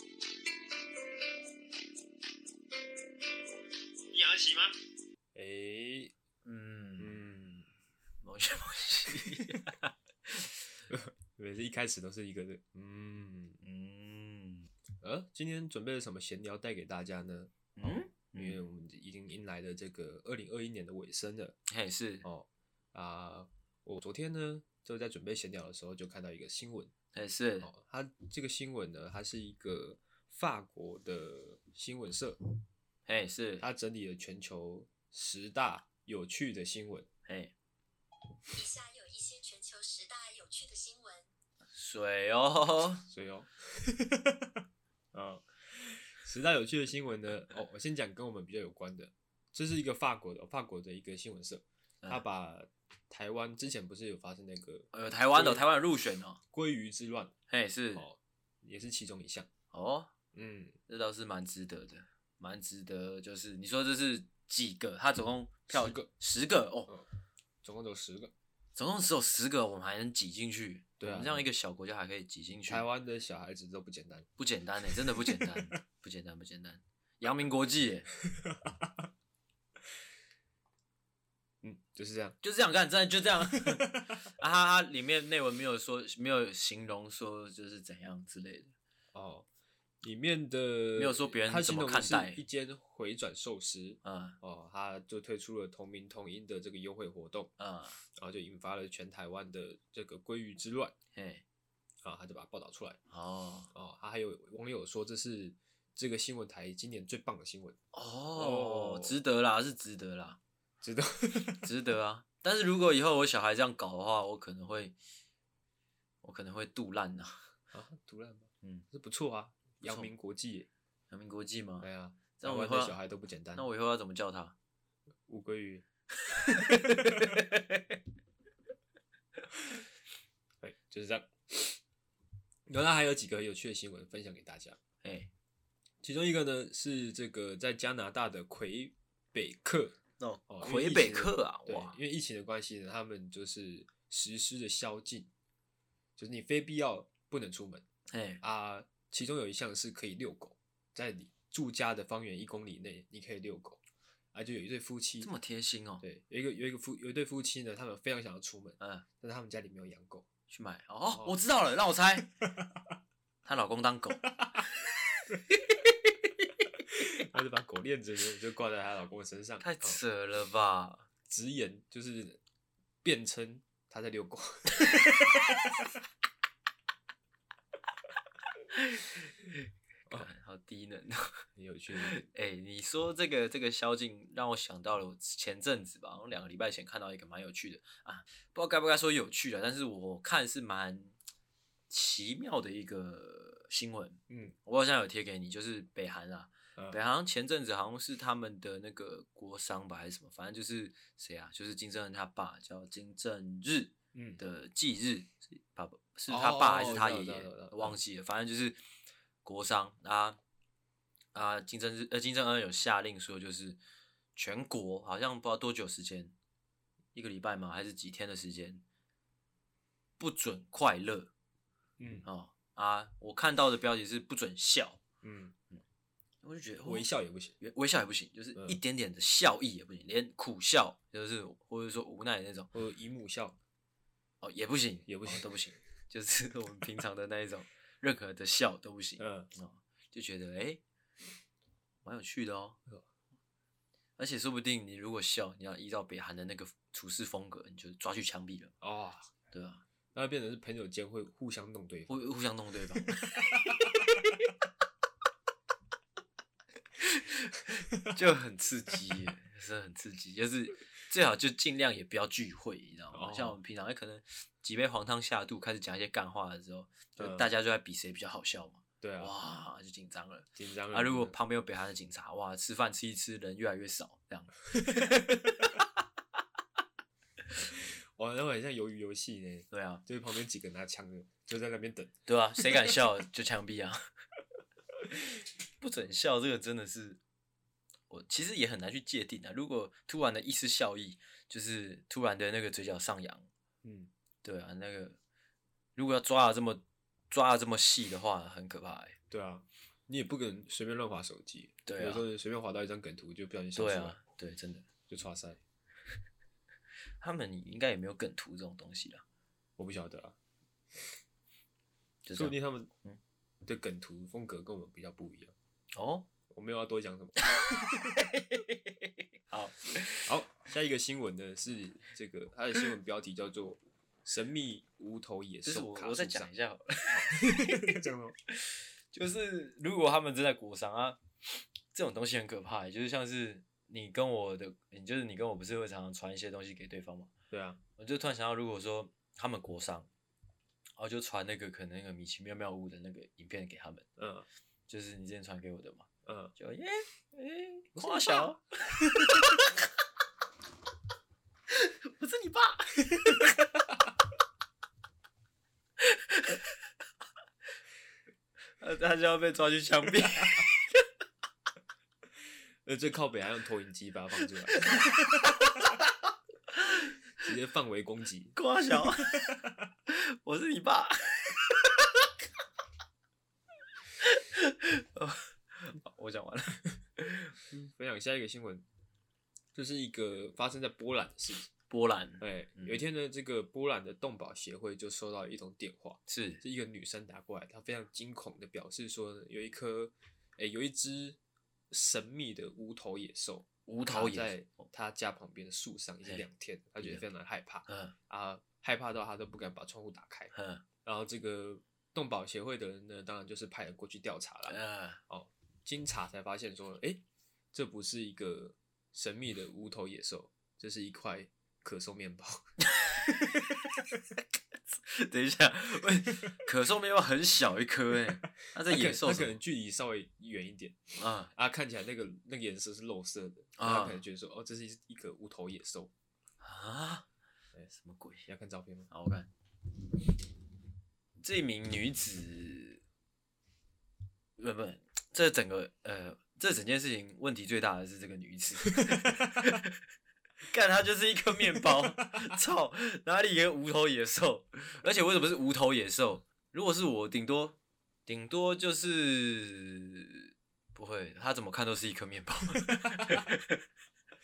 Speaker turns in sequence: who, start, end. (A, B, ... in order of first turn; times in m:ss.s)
0:04.1-0:04.6 A
0:05.4-0:06.1 A
0:06.4-0:07.2 B
0:07.0-0:07.7 A
0:08.2-0:10.5 B
0:09.1-0:09.6 A
0:10.9-0:13.6 A
0:13.6-0:14.7 B
0:15.0-0:21.6 A
0:17.8-0:18.6 B
0:21.7-0:22.3 B
0:22.2-0:26.9 A
0:27.1-0:27.7 B
0:27.6-0:32.4 A
0:33.1-0:33.7 B
0:33.6-0:37.1 A
0:37.3-0:37.5 B
0:38.5-0:41.3 C
0:41.7-0:43.0 B
0:43.0-0:44.6 A
0:45.1-0:55.6 A
0:54.9-0:56.4 B
0:56.5-0:57.4 A
0:57.5-0:58.0 B
0:57.9-0:59.5 A
0:59.7-1:00.1 B
1:00.3-1:00.8 A
1:00.9-1:06.9 B
1:05.7-1:06.1 A
1:07.6-1:08.3 A
1:08.8-1:12.8 B
1:11.0-1:11.5 A
1:12.7-1:14.3 A
1:14.4-1:18.1 B
1:14.9-1:15.8 A
1:18.2-1:19.1 A
1:21.6-1:22.4 A
1:22.4-1:28.7 B
1:23.8-1:24.1 A
1:29.1-1:29.5 A
1:30.0-1:37.5 A
1:31.0-1:32.4 B
1:34.0-1:34.4 B
1:37.6-1:38.0 B
1:38.1-1:41.0 A
1:41.2-1:41.4 B
1:42.0-1:43.0 A
1:43.1-1:43.7 B
1:43.7-1:47.8 A
1:47.9-1:50.4 B
1:48.4-1:49.2 A
1:50.8-1:51.7 A
1:51.6-1:55.0 B
1:56.2-1:57.4 B
1:57.7-2:00.7 A
1:59.8-2:00.1 B
2:01.1-2:03.0 B
2:01.8-2:03.7 A
2:03.6-2:04.5 B
2:05.3-2:05.8 A
2:06.3-2:07.8 B
2:06.6-2:07.4 A
2:10.6-2:11.8 A
2:12.7-2:14.8 A
2:15.0-2:15.3 B
2:16.0-2:20.0 A
2:20.2-2:22.0 B
2:20.5-2:25.3 A
2:26.2-2:27.8 A
2:28.1-2:28.4 B
2:28.4-2:33.8 A
2:34.3-2:35.3 A
2:35.2-2:36.0 B
2:36.0-2:40.3 A
2:38.8-2:39.0 B
2:40.5-2:42.3 B
2:41.1-2:41.4 A
2:43.5-2:44.3 B
2:46.9-2:50.0 A
2:49.6-2:51.1 B
2:51.3-2:52.4 A
2:53.0-2:55.9 A
2:58.7-3:11.2 B
3:01.6-3:02.3 A
3:11.9-3:28.8 B
3:14.3-3:14.6 A
3:24.1-3:24.4 A
3:26.3-3:28.0 A
3:29.4-3:30.4 B
3:31.3-3:33.8 B
3:34.4-3:36.4 B
3:37.2-3:38.8 B
3:40.2-3:41.3 B
3:42.0-3:42.3 A
3:42.2-3:45.0 B
3:45.2-3:45.5 A
3:46.4-3:47.1 B
3:46.8-3:47.6 A
3:47.6-3:52.7 B
3:52.7-3:53.6 A
3:54.4-4:00.8 B
3:55.1-3:55.5 A
3:59.2-3:59.5 A
4:02.0-4:02.8 B
4:04.2-4:08.7 B
4:08.8-4:09.2 A
4:09.5-4:09.8 B
4:10.1-4:12.3 A
4:12.1-4:14.4 B
4:17.0-4:34.5 B
4:23.1-4:23.6 A
4:27.2-4:27.5 A
4:29.0-4:29.3 A
4:30.6-4:31.3 A
4:37.7-4:42.1 A
4:39.7-4:40.0 B
4:42.3-4:44.0 B
4:45.8-4:47.2 B
4:48.1-4:53.5 B
4:53.8-4:54.1 A
4:54.4-4:55.2 B
4:56.0-4:59.2 B
4:59.3-5:04.2 A
5:01.9-5:02.2 B
5:03.8-5:04.9 B
5:05.1-5:05.6 A
5:07.2-5:09.2 B
5:09.8-5:10.4 A
5:12.3-5:13.2 B
5:12.3-5:12.9 A
5:13.6-5:15.5 A
5:15.9-5:16.3 B
5:16.5-5:17.4 A
5:17.5-5:18.8 B
5:19.5-5:20.3 B
5:20.2-5:26.5 A
5:25.6-5:28.0 B
5:27.1-5:28.4 A
5:28.5-5:31.2 B
5:31.9-5:37.3 B
5:37.5-5:37.8 A
5:38.0-5:40.1 B
5:41.0-5:44.1 B
5:44.2-5:44.5 A
5:44.9-5:49.7 B
5:46.3-5:46.5 A
5:48.0-5:48.5 A
5:51.7-5:53.5 B
5:56.0-5:56.6 B
5:58.8-6:00.8 B
6:02.8-6:04.9 A
6:04.7-6:06.0 B
6:06.8-6:07.1 B
6:07.4-6:09.6 A
6:08.6-6:12.2 B
6:14.2-6:17.6 B
6:17.7-6:18.8 A
6:19.7-6:21.7 A
6:21.9-6:23.0 B
6:22.4-6:31.4 A
6:26.3-6:26.6 B
6:31.9-6:40.5 A
6:33.9-6:34.6 B
6:37.9-6:38.2 B
6:40.5-6:40.8 B
6:41.0-6:52.7 A
6:44.7-6:45.2 B
6:52.9-6:53.7 B
6:55.1-6:59.6 B
6:58.9-7:06.1 A
7:01.2-7:01.5 B
7:03.8-7:04.2 B
7:06.6-7:07.3 B
7:07.9-7:08.5 B
7:08.5-7:09.1 A
7:09.1-7:09.5 B
7:11.4-7:13.0 B
7:14.6-7:20.0 B
7:20.7-7:33.8 B